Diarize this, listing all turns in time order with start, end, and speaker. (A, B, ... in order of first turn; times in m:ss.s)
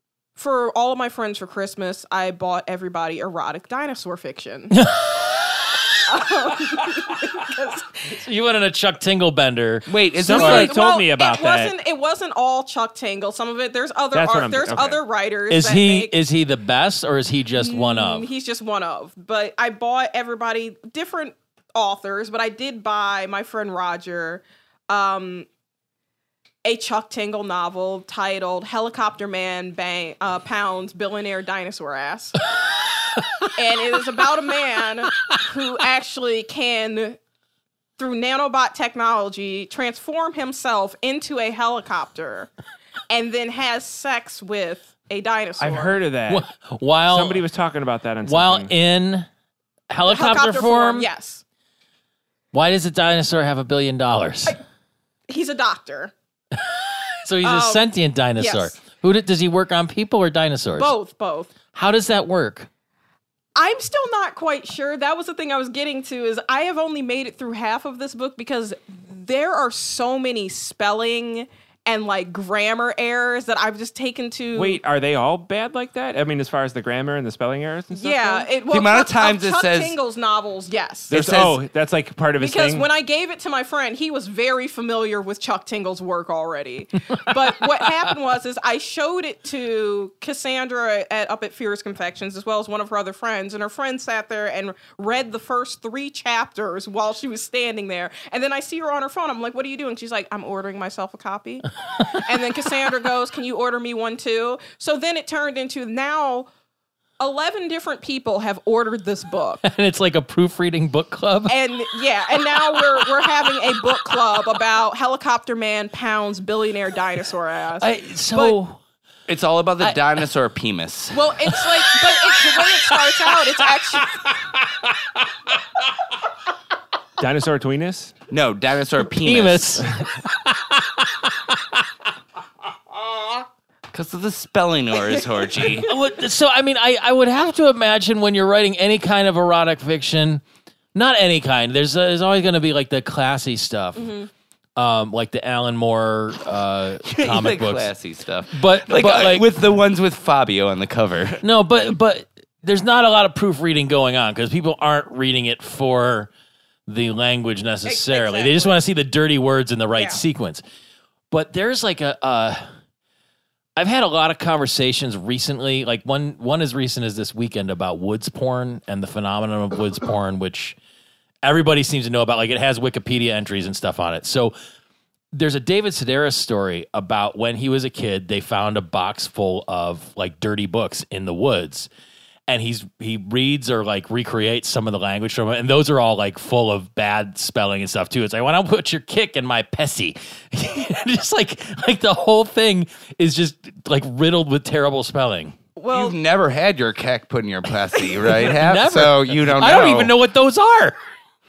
0:00.4-0:04.9 A
0:04.7-0:05.9 B
0:06.0-0:08.2 A
0:08.1-0:10.7 B
0:09.9-0:10.7 C
0:10.2-0:11.7 D
0:10.3-0:16.2 A
0:14.1-0:15.0 D
0:15.5-0:18.3 B
0:17.6-0:25.5 A
0:26.6-0:32.4 A
0:33.2-0:33.5 B
0:33.5-0:37.2 A
0:38.0-0:42.5 A
0:43.1-0:46.0 A
0:45.6-0:46.5 D
0:46.3-0:47.4 B
0:47.1-0:48.7 D
0:48.2-0:49.3 B
0:49.9-0:51.1 B
0:50.1-0:51.4 A
0:52.5-0:54.6 B
0:55.3-0:56.1 A
0:56.7-1:00.9 B
0:57.4-0:58.8 A
1:00.8-1:01.5 A
1:01.7-1:02.7 B
1:03.6-1:14.8 A
1:14.6-1:18.5 D
1:17.9-1:21.1 A
1:18.7-1:20.0 C
1:21.1-1:21.6 C
1:21.1-1:22.9 D
1:22.4-1:46.5 A
1:47.2-1:49.6 A
1:49.6-1:51.6 B
1:51.5-1:58.6 A
1:52.4-1:54.2 B
1:57.8-1:58.8 B
1:59.3-2:01.2 C
1:59.8-2:00.2 B
2:01.1-2:04.2 A
2:01.5-2:04.9 B
2:07.2-2:08.1 D
2:08.3-2:09.9 C
2:09.0-2:11.8 B
2:13.9-2:15.9 C
2:15.8-2:20.4 B
2:20.9-2:24.2 B
2:24.0-2:24.3 A
2:24.8-2:27.9 B
2:27.1-2:31.4 C
2:28.5-2:29.5 B
2:31.4-2:36.3 B
2:36.9-2:40.6 B
2:37.8-2:38.8 A
2:40.0-2:40.2 A
2:41.3-2:42.6 B
2:43.8-2:50.8 B
2:51.4-2:54.6 B
2:55.3-3:01.9 B
3:02.5-3:15.6 B
3:15.8-3:16.2 A
3:15.9-3:20.1 C
3:18.4-3:21.0 B